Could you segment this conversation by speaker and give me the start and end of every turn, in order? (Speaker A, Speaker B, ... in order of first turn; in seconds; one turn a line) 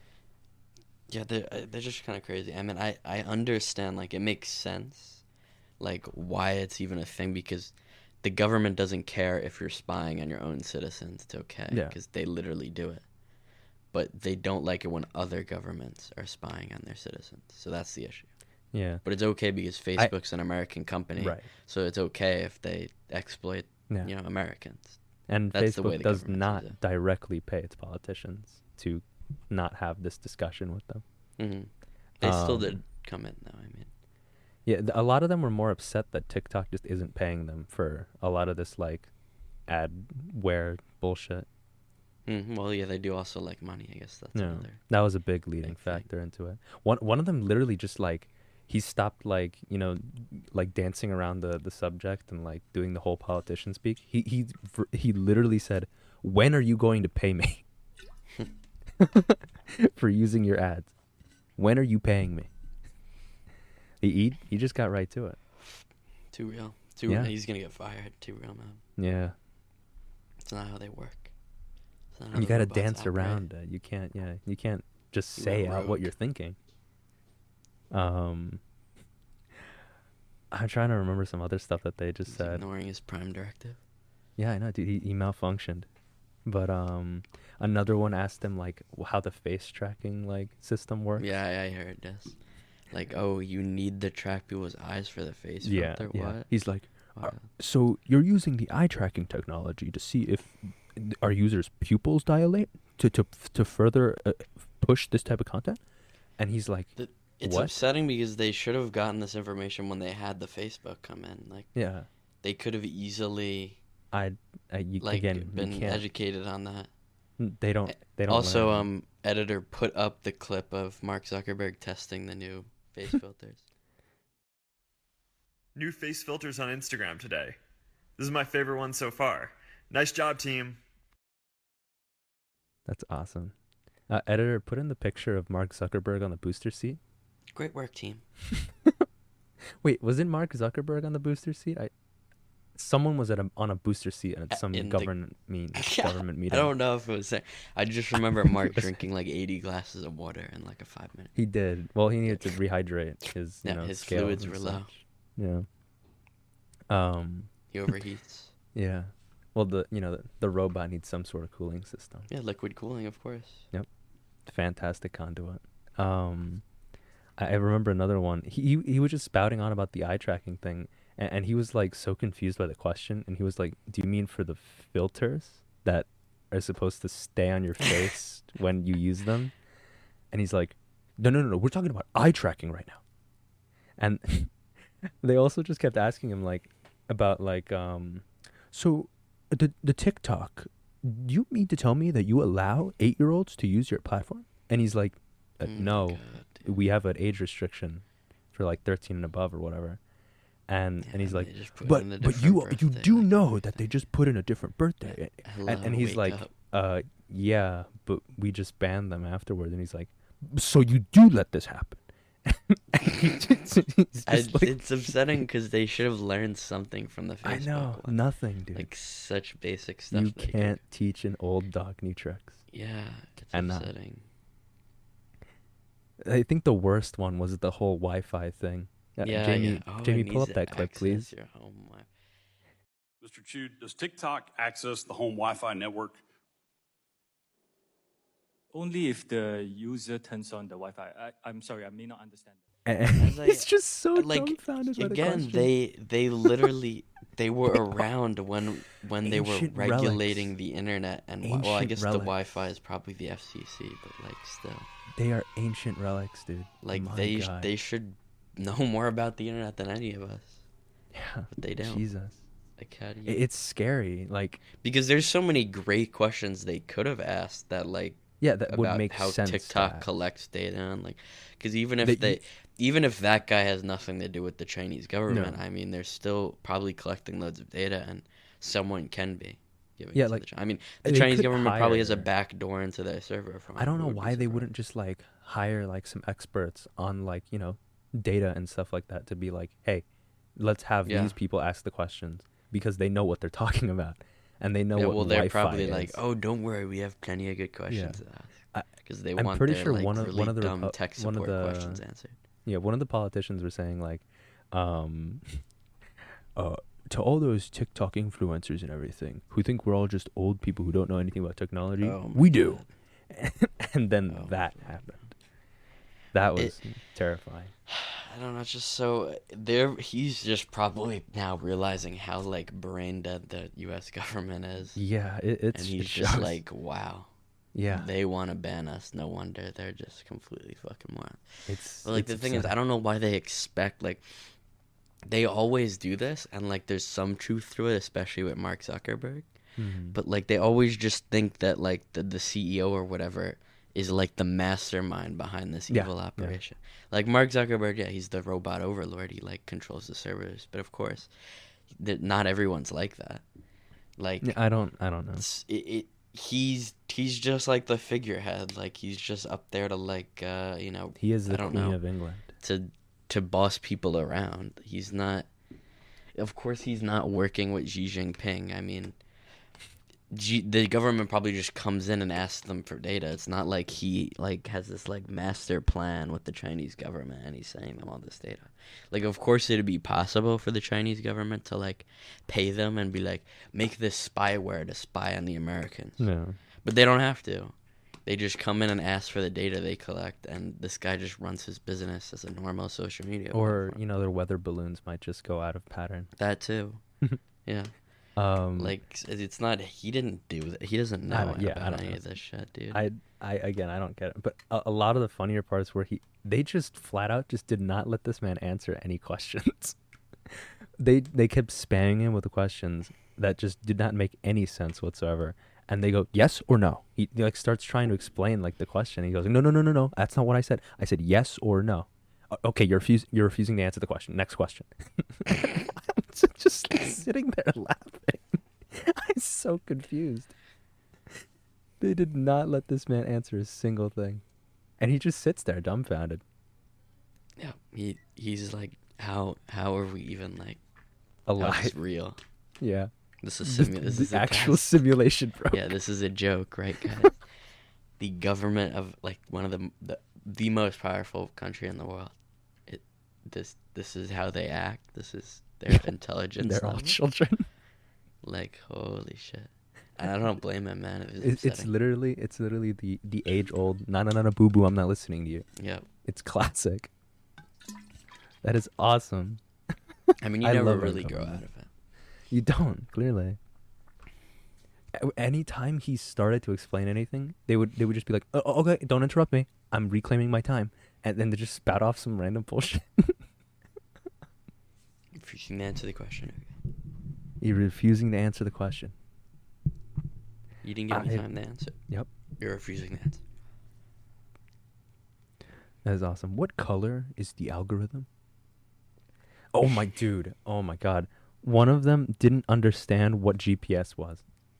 Speaker A: 1.1-5.2
Speaker A: 5.8-13.0
Speaker B: 11.7-11.9
Speaker A: 13.9-18.3
Speaker B: 18.7-19.0
Speaker A: 19.0-25.0
Speaker B: 21.2-21.5
Speaker B: 25.3-31.0
Speaker A: 25.5-26.7
Speaker A: 31.4-33.9
Speaker B: 32.2-32.8
Speaker B: 34.6-39.1
Speaker B: 39.7-41.5
Speaker A: 42.2-44.8
Speaker B: 44.3-57.6
Speaker A: 45.6-46.0
Speaker B: 59.0-60.9
Speaker B: 61.6-62.5
Speaker B: 64.0-65.4
Speaker A: 66.3-68.8
Speaker B: 67.1-67.3
Speaker B: 69.0-69.3
Speaker A: 70.4-71.3
Speaker A: 72.1-73.4
Speaker B: 72.3-76.6
Speaker A: 75.3-76.1
Speaker B: 77.9-78.6
Speaker B: 80.5-82.6
Speaker A: 82.3-83.8
Speaker B: 84.4-85.9
Speaker B: 86.5-91.3
Speaker A: 91.2-92.3
Speaker A: 92.9-96.5
Speaker B: 95.6-105.8
Speaker A: 97.2-97.5
Speaker B: 106.4-107.8
Speaker A: 107.0-111.7
Speaker B: 111.7-112.1
Speaker A: 112.4-113.8
Speaker B: 114.1-116.0
Speaker A: 115.0-116.9
Speaker B: 117.4-118.9
Speaker A: 117.9-123.6
Speaker C: 125.7-127.6
Speaker C: 128.2-130.8
Speaker B: 132.8-133.5
Speaker B: 134.1-137.0
Speaker A: 137.5-138.2
Speaker B: 138.5-139.0
Speaker B: 139.8-141.9
Speaker B: 142.7-146.7
Speaker A: 144.5-145.1
Speaker A: 145.7-151.3
Speaker B: 151.3-155.7
Speaker A: 153.6-154.9
Speaker B: 156.9-157.5
Speaker A: 157.7-158.5
Speaker B: 158.7-162.3
Speaker A: 162.3-163.7
Speaker B: 164.4-166.6
Speaker B: 167.4-179.5
Speaker B: 180.3-183.0
Speaker B: 184.0-200.0
Speaker A: 195.6-196.7
Speaker B: 200.7-215.1
Speaker A: 201.0-203.3
Speaker A: 205.1-206.5
Speaker A: 214.2-218.2
Speaker B: 217.4-218.9
Speaker A: 218.7-220.8
Speaker B: 220.1-222.6
Speaker A: 222.7-224.2
Speaker B: 223.5-223.9
Speaker B: 226.2-231.3
Speaker A: 229.2-232.1
Speaker D: 233.2-236.2
Speaker E: 238.7-242.6
Speaker B: 242.8-245.7
Speaker A: 243.2-254.9
Speaker B: 246.4-246.7
Speaker B: 247.7-248.0
Speaker B: 249.2-250.5
Speaker B: 251.4-252.3
Speaker B: 255.1-257.7
Speaker A: 256.8-260.6
Speaker B: 261.1-262.4
Speaker A: 261.5-262.1
Speaker A: 262.8-263.4
Speaker B: 263.2-264.6
Speaker A: 264.8-284.7
Speaker B: 268.4-270.1
Speaker B: 272.0-272.4
Speaker B: 275.3-275.6
Speaker B: 280.1-282.3
Speaker B: 283.8-290.0
Speaker B: 290.6-296.2
Speaker A: 291.1-291.4
Speaker A: 294.9-302.4
Speaker B: 297.9-298.2
Speaker B: 298.7-302.0
Speaker B: 302.6-305.6
Speaker B: 306.5-315.3
Speaker A: 312.0-312.9
Speaker A: 314.3-314.9
Speaker B: 316.3-317.7
Speaker A: 317.9-325.0
Speaker B: 324.9-326.6
Speaker A: 325.7-327.3
Speaker B: 327.7-328.1
Speaker A: 327.9-334.2
Speaker B: 331.7-332.7
Speaker A: 335.2-339.5
Speaker B: 339.8-340.2
Speaker A: 340.1-351.3
Speaker B: 345.9-346.6
Speaker A: 351.9-353.4
Speaker A: 354.2-354.5
Speaker B: 354.4-355.4
Speaker A: 355.4-362.0
Speaker B: 361.2-362.5
Speaker A: 362.6-365.5
Speaker A: 366.3-369.1
Speaker A: 370.3-386.3
Speaker B: 386.2-386.6
Speaker A: 386.8-387.7
Speaker A: 388.2-394.0
Speaker B: 393.5-396.3
Speaker A: 396.4-397.0
Speaker A: 397.6-397.9
Speaker B: 398.4-398.9
Speaker A: 398.8-403.0
Speaker B: 401.3-402.2
Speaker B: 402.9-410.0
Speaker B: 410.5-430.5
Speaker B: 432.0-434.4
Speaker B: 435.0-436.4
Speaker A: 437.6-440.8
Speaker B: 441.4-441.9
Speaker A: 441.6-442.4
Speaker B: 442.8-443.1
Speaker A: 443.4-445.0
Speaker B: 443.6-445.9
Speaker A: 445.7-447.4
Speaker B: 447.0-447.3
Speaker A: 448.2-452.3
Speaker A: 452.9-457.2
Speaker B: 455.9-457.6
Speaker A: 458.4-461.9
Speaker B: 461.4-465.6
Speaker A: 465.8-466.1
Speaker B: 466.2-467.1
Speaker B: 468.6-469.6
Speaker B: 470.3-471.6
Speaker A: 470.4-471.9
Speaker B: 472.5-473.6
Speaker B: 475.1-483.4
Speaker A: 485.3-486.8
Speaker B: 487.6-489.1
Speaker A: 490.8-491.9
Speaker B: 491.1-491.5
Speaker A: 492.6-493.4
Speaker B: 496.0-498.3
Speaker B: 499.7-504.4